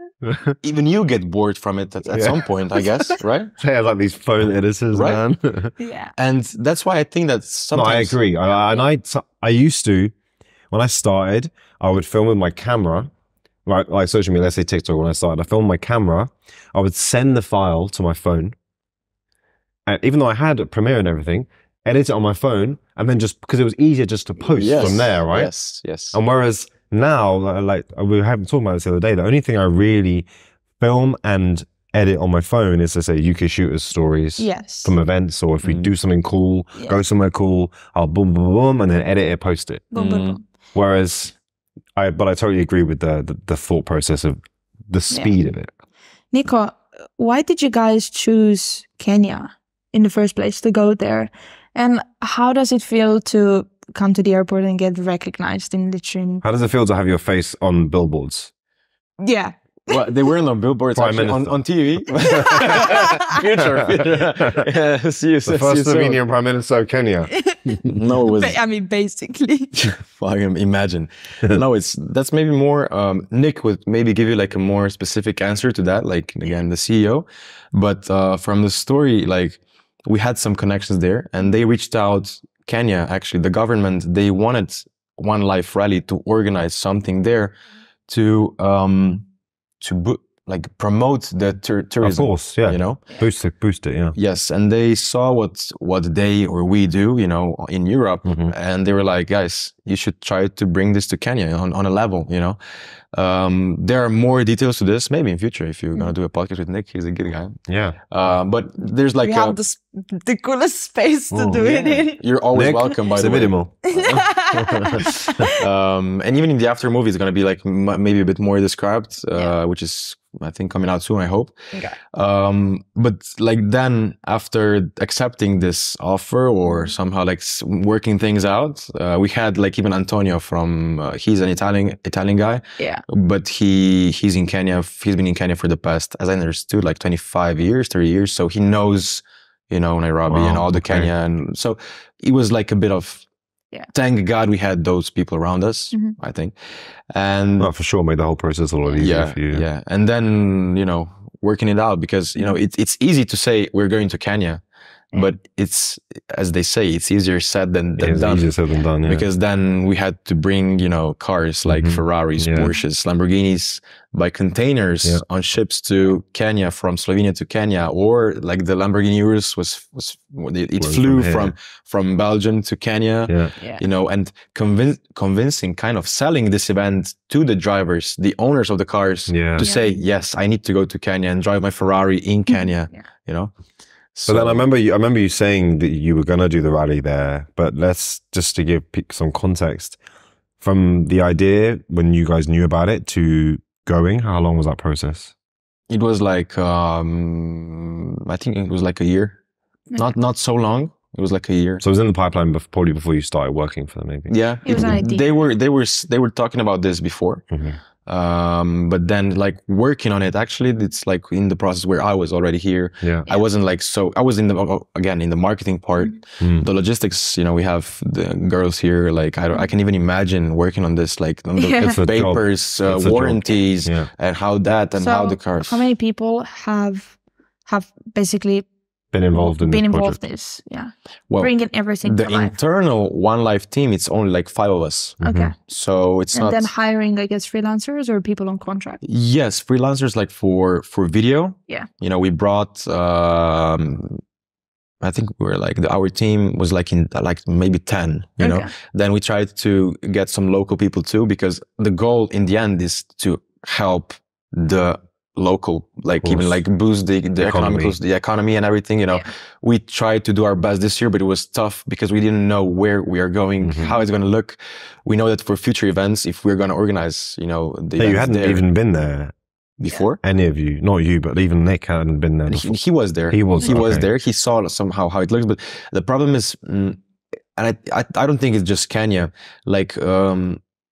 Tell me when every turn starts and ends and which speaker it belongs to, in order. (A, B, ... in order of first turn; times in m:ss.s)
0:00.2-0:00.6 A
0:00.6-0:03.5 B
0:02.1-0:02.5 A
0:03.6-0:05.7 A
0:04.9-0:05.2 B
0:05.8-0:06.1 C
0:06.2-0:08.2 B
0:07.7-0:10.1 A
0:10.7-0:13.1 A
0:13.7-0:18.6 A
0:19.9-0:25.5 A
0:24.6-0:26.2 B
0:26.1-0:30.3 A
0:30.8-0:40.0 A
0:34.4-0:34.9 C
0:35.6-0:35.9 B
0:39.9-0:40.4 C
0:40.0-0:40.4 B
0:40.8-0:41.4 A
0:42.0-0:45.7 A
0:46.3-0:56.4 C
0:56.4-0:58.5 A
0:59.2-1:00.1 C
0:59.9-1:06.2 B
1:01.0-1:02.9 A
1:02.5-1:03.3 C
1:05.4-1:07.8 A
1:07.3-1:07.6 C
1:07.8-1:08.6 B
1:08.2-1:09.8 C
1:09.9-1:27.6 B
1:28.1-1:29.3 B
1:29.8-1:33.0 B
1:32.0-1:34.2 A
1:34.2-1:42.6 B
1:38.2-1:38.5 A
1:43.1-1:47.6 B
1:47.7-1:48.0 A
1:48.1-1:49.6 B
1:49.2-1:52.2 C
1:51.3-1:53.9 A
1:51.8-2:01.6 B
1:53.9-1:55.6 C
1:54.6-1:55.5 A
2:02.1-2:23.2 B
2:06.7-2:06.9 C
2:20.3-2:21.1 A
2:23.9-2:26.6 B
2:27.1-2:27.7 B
2:27.6-2:29.7 A
2:29.0-2:34.6 B
2:35.1-3:03.5 B
2:38.0-2:39.3 A
2:41.7-2:42.7 A
2:50.8-2:51.5 A
2:59.3-2:59.7 A
2:59.6-3:00.0 C
3:02.5-3:03.0 C
3:04.1-3:04.7 B
3:04.3-3:10.0 A
3:10.6-3:15.3 A
3:15.9-3:19.4 B
3:20.0-3:21.8 B
3:21.8-3:25.0 A
3:24.3-3:27.4 B
3:24.6-3:25.2 C
3:27.5-3:27.8 A
3:28.0-3:45.8 B
3:33.0-3:33.3 A
3:36.4-3:36.7 A
3:41.6-3:42.0 C
3:42.0-3:44.1 A
3:45.0-3:48.7 C
3:49.1-3:50.2 A
3:49.3-3:52.5 C
3:52.0-3:56.7 B
3:55.2-3:55.5 A
3:55.2-3:55.6 C
3:56.3-3:59.0 C
3:59.0-4:04.2 B
4:05.0-4:28.6 B
4:08.4-4:08.7 C
4:16.2-4:16.6 A
4:17.4-4:18.0 A
4:23.6-4:24.0 A
4:28.0-4:29.3 A
4:29.8-4:30.2 B
4:30.2-4:32.8 A
4:32.5-4:37.0 B
4:33.3-4:34.1 A
4:37.6-4:40.6 B